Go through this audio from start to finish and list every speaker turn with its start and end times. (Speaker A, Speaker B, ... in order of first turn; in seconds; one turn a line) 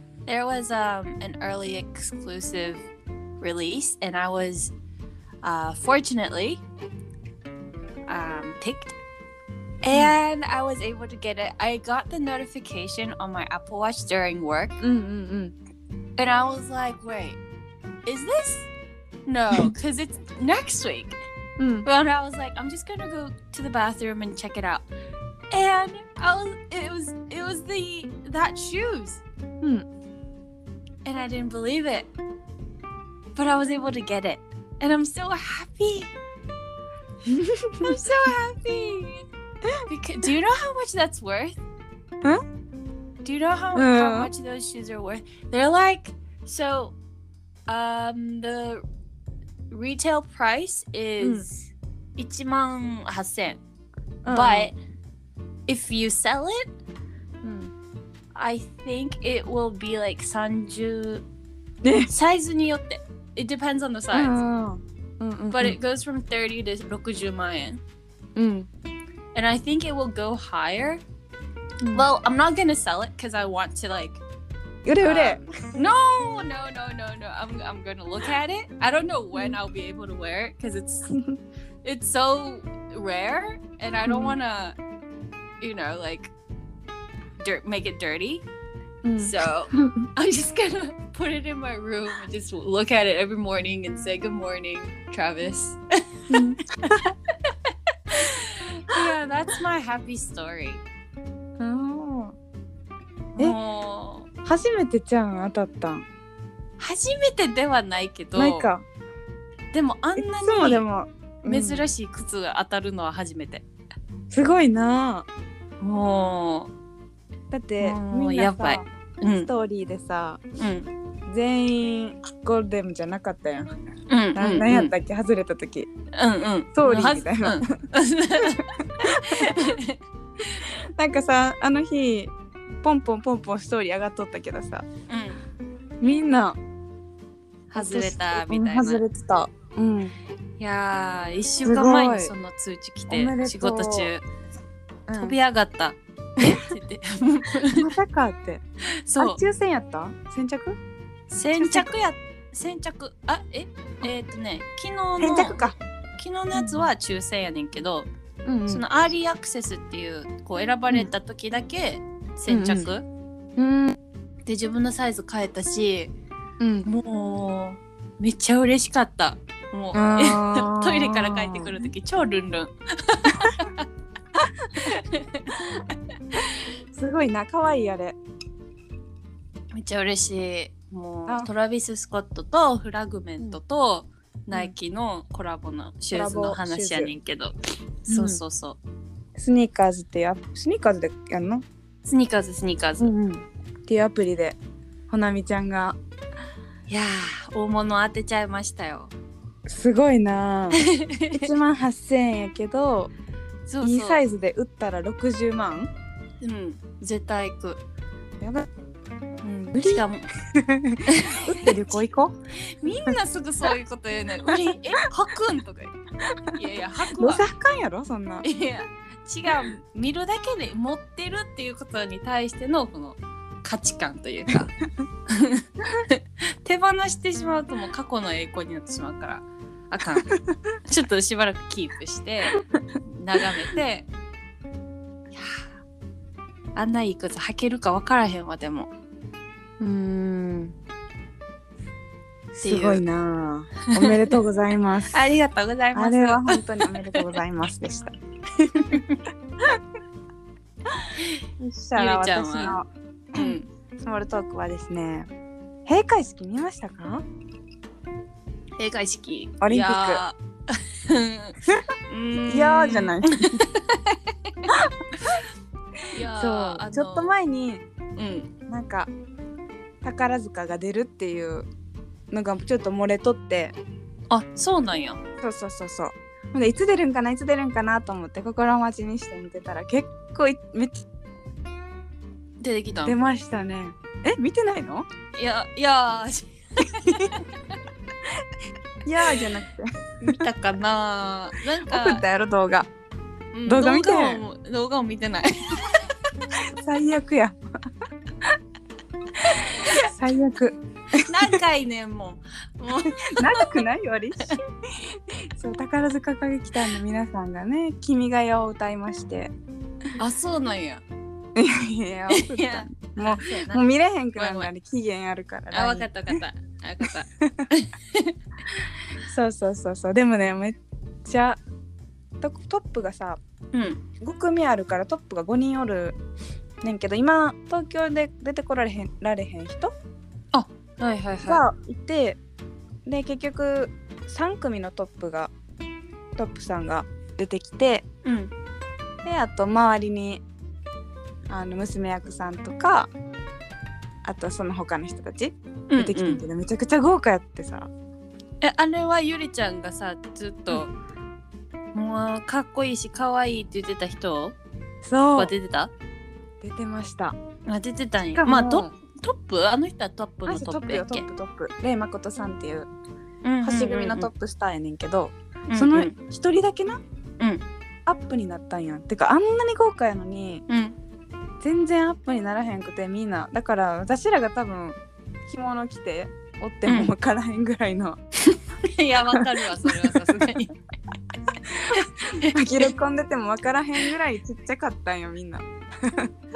Speaker A: 0.2-2.9
Speaker A: 3.4-4.7
Speaker A: 5.4-6.6
Speaker A: 8.1-8.9
Speaker A: 9.8-14.8
Speaker B: 9.9-10.2
Speaker B: 14.8-15.5
Speaker A: 16.2-17.4
Speaker A: 18.0-18.7
Speaker A: 19.2-21.2
Speaker B: 21.6-21.9
Speaker A: 21.8-24.9
Speaker A: 25.5-29.2
Speaker A: 31.0-32.1
Speaker A: 33.4-36.1
Speaker B: 37.2-37.9
Speaker A: 37.8-39.2
Speaker A: 39.9-41.6
Speaker A: 43.2-46.9
Speaker B: 43.7-44.3
Speaker A: 47.7-48.8
Speaker A: 49.7-53.6
Speaker B: 54.2-54.7
Speaker A: 54.3-54.8
Speaker A: 55.7-56.7
Speaker B: 57.4-57.7
Speaker A: 58.3-61.2
Speaker B: 61.8-62.1
Speaker A: 62.0-64.4
Speaker B: 64.1-65.8
Speaker A: 65.5-67.8
Speaker B: 68.3-68.7
Speaker A: 69.3-71.0
Speaker B: 71.8-72.1
Speaker A: 71.9-74.2
Speaker B: 74.8-75.5
Speaker A: 75.0-81.1
Speaker A: 81.8-84.8
Speaker B: 84.1-84.3
Speaker A: 85.6-86.3
Speaker A: 87.4-88.4
Speaker B: 89.0-90.0
Speaker A: 89.2-96.9
Speaker B: 96.3-97.1
Speaker A: 97.5-100.8
Speaker B: 101.6-102.3
Speaker A: 103.4-104.3
Speaker B: 104.4-106.0
Speaker A: 106.8-108.7
Speaker B: 108.3-108.8
Speaker A: 109.7-110.8
Speaker B: 110.2-111.9
Speaker A: 111.4-113.6
Speaker B: 114.3-115.3
Speaker A: 115.8-116.7
Speaker B: 117.5-118.8
Speaker A: 117.8-119.5
Speaker B: 119.5-120.4
Speaker A: 120.6-120.9
Speaker B: 121.3-123.7
Speaker A: 124.1-124.9
Speaker B: 124.3-125.9
Speaker A: 126.1-130.6
Speaker B: 126.7-127.7
Speaker B: 128.4-129.7
Speaker B: 130.6-134.8
Speaker A: 135.1-135.4
Speaker B: 136.0-136.6
Speaker A: 137.7-139.0
Speaker B: 137.7-140.1
Speaker A: 140.6-144.2
Speaker B: 141.6-142.3
Speaker B: 143.1-144.1
Speaker B: 145.1-145.4
Speaker A: 145.1-147.9
Speaker B: 147.7-148.6
Speaker A: 148.9-149.4
Speaker B: 149.2-150.8
Speaker A: 151.3-155.7
Speaker B: 151.6-151.9
Speaker B: 155.2-155.7
Speaker A: 156.2-158.1
Speaker B: 156.5-156.8
Speaker B: 158.4-158.8
Speaker A: 158.7-163.1
Speaker B: 162.5-162.9
Speaker B: 163.6-164.0
Speaker A: 164.4-166.1
Speaker B: 166.6-166.9
Speaker A: 166.8-173.8
Speaker B: 169.9-171.9
Speaker B: 174.3-174.9
Speaker A: 174.8-176.6
Speaker B: 176.9-178.2
Speaker A: 179.7-187.5
Speaker B: 186.1-187.1
Speaker A: 188.1-188.8
Speaker B: 188.1-188.4
Speaker B: 189.3-191.6
Speaker A: 192.0-193.1
Speaker B: 193.0-194.6
Speaker B: 195.1-196.0
Speaker A: 196.9-199.1
Speaker B: 199.7-200.8
Speaker A: 200.8-201.4
Speaker B: 201.3-203.1
Speaker A: 203.7-204.2
Speaker B: 203.8-205.9
Speaker A: 206.4-207.8
Speaker B: 208.4-208.7
Speaker B: 209.4-212.3
Speaker A: 209.8-210.3
Speaker A: 211.1-211.8
Speaker A: 212.6-216.0
Speaker B: 212.8-213.1
Speaker A: 216.5-217.4
Speaker B: 217.1-218.4
Speaker A: 218.4-224.7
Speaker A: 225.3-234.1
Speaker B: 230.2-230.4
Speaker A: 235.3-235.6
Speaker A: 236.7-238.9
Speaker A: 239.8-240.7
Speaker A: 242.5-243.0
Speaker B: 242.6-245.2
Speaker A: 243.9-244.3
Speaker A: 245.1-247.2
Speaker B: 245.9-249.0
Speaker A: 248.9-249.2
Speaker A: 251.1-251.4
Speaker B: 251.6-255.3
Speaker A: 251.9-252.8
Speaker A: 253.3-253.7
Speaker B: 255.8-257.2
Speaker A: 258.8-264.7
Speaker B: 259.6-260.2
Speaker B: 262.5-263.6
Speaker B: 264.7-265.4
Speaker A: 266.1-267.3
Speaker B: 266.2-267.8
Speaker A: 268.2-268.5
Speaker B: 268.7-269.1
Speaker B: 270.0-271.7
Speaker B: 272.3-273.7
Speaker A: 274.3-275.2
Speaker B: 275.4-281.0
Speaker A: 282.6-283.2
Speaker B: 283.0-285.1
Speaker A: 285.3-287.4
Speaker B: 289.0-290.4
Speaker A: 290.2-292.2
Speaker B: 291.8-292.9
Speaker A: 293.5-296.1
Speaker B: 293.6-294.4
Speaker B: 296.8-297.6
Speaker A: 299.4-300.1
Speaker B: 299.4-301.6
Speaker A: 301.1-303.8
Speaker B: 303.3-309.5
Speaker A: 310.2-311.0
Speaker B: 311.5-316.3
Speaker A: 312.3-313.8
Speaker A: 314.4-314.7
Speaker A: 315.7-318.4
Speaker B: 317.0-317.7
Speaker B: 319.2-321.6
Speaker B: 322.4-323.4
Speaker A: 323.7-324.0
Speaker B: 324.2-326.2
Speaker B: 326.8-329.9
Speaker A: 330.5-331.6
Speaker B: 331.4-332.4
Speaker B: 333.1-335.5
Speaker B: 336.4-338.0
Speaker A: 338.2-338.5
Speaker B: 339.2-340.4
Speaker B: 341.5-343.1
Speaker B: 344.2-347.9
Speaker A: 345.9-346.4
Speaker A: 348.6-350.9
Speaker A: 351.9-354.6
Speaker B: 355.0-355.5
Speaker A: 355.3-355.9
Speaker B: 356.6-357.4
Speaker A: 357.6-361.2
Speaker B: 358.4-358.9
Speaker B: 360.4-362.9
Speaker A: 363.4-364.3
Speaker B: 363.6-367.0
Speaker A: 365.7-366.1
Speaker B: 368.1-370.6
Speaker A: 370.7-370.9
Speaker B: 371.6-378.2
Speaker A: 376.9-377.1
Speaker A: 378.4-380.7
Speaker B: 379.3-380.4
Speaker B: 381.7-386.3
Speaker A: 381.9-382.9